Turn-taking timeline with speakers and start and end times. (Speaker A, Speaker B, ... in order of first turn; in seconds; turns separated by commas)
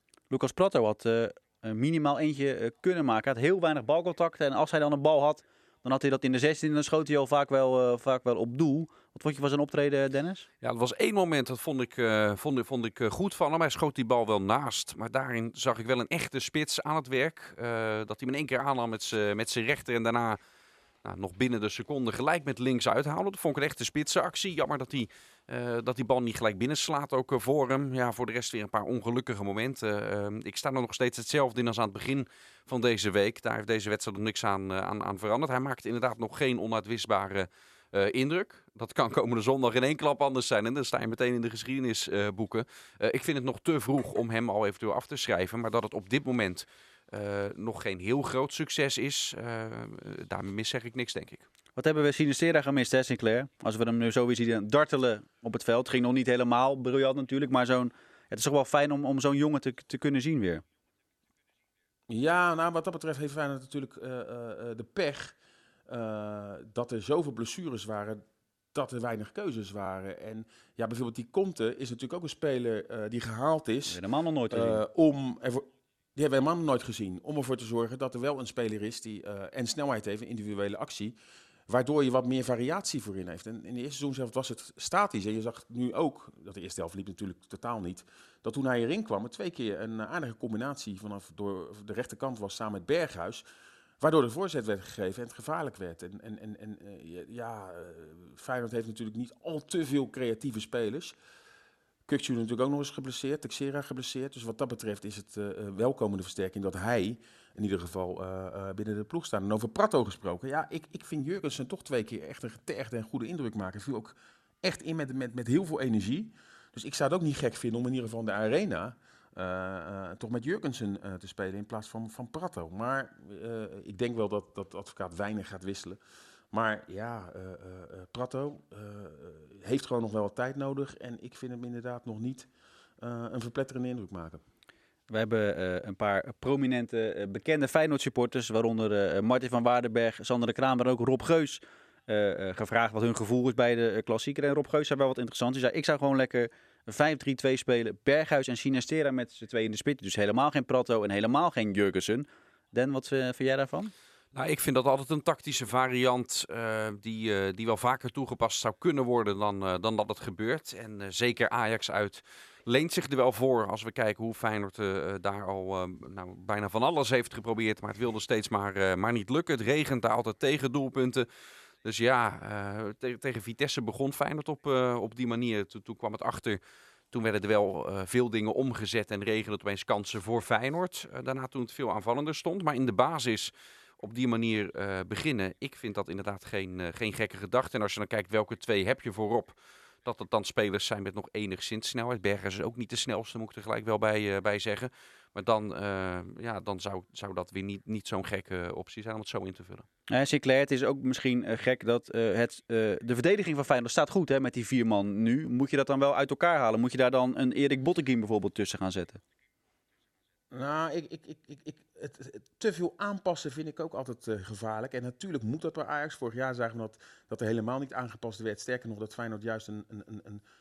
Speaker A: 0.3-10.5, Speaker B: 10.6-20.4, Speaker B: 21.0-51.5, Speaker A: 51.8-60.6, Speaker C: 62.1-65.3, Speaker C: 65.9-68.2, Speaker C: 68.7-81.2, Speaker A: 73.9-74.8, Speaker C: 81.7-93.5, Speaker C: 94.0-101.2, Speaker C: 102.1-126.0, Speaker C: 126.5-132.5, Speaker C: 133.0-134.4, Speaker A: 135.1-153.9, Speaker B: 154.3-171.3, Speaker B: 171.8-176.6, Speaker B: 177.1-199.9, Speaker A: 200.1-209.2, Speaker C: 210.5-220.4